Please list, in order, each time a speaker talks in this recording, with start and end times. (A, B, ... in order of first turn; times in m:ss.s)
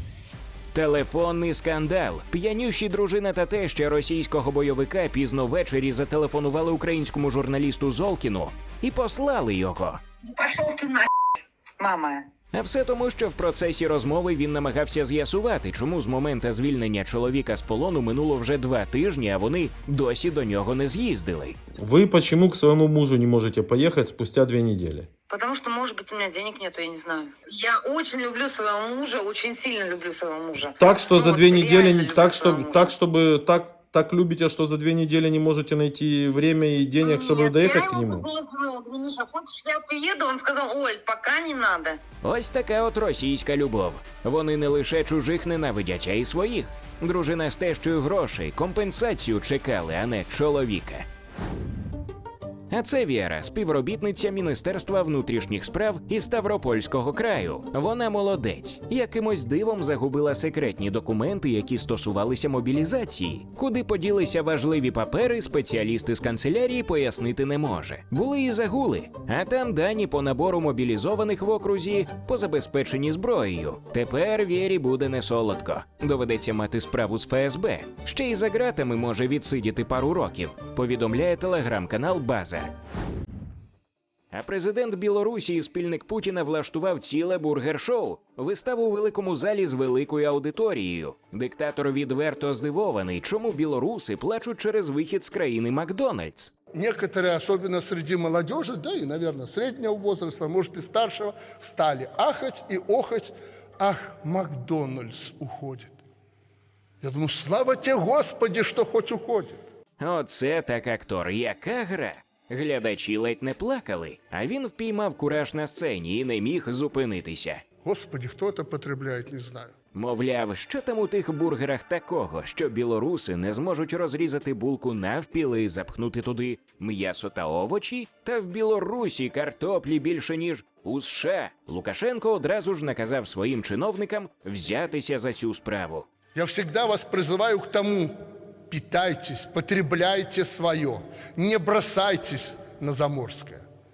0:00.7-0:10.0 A
0:10.2-0:11.1 B
0:11.8-0:12.3 B
0:12.5-0:21.6 A
0:21.7-0:25.1 C
0:25.3-0:32.9 B
0:30.8-0:38.3 C
0:37.0-0:42.0 B
0:42.2-0:51.1 A
0:52.7-1:22.7 A
1:24.3-1:36.5 A
1:36.7-1:46.0 D
1:47.0-1:49.6 D
1:50.0-1:57.6 A
1:57.8-1:59.7 D
1:59.9-2:16.0 A
2:16.3-2:18.1 D
2:18.7-2:23.6 D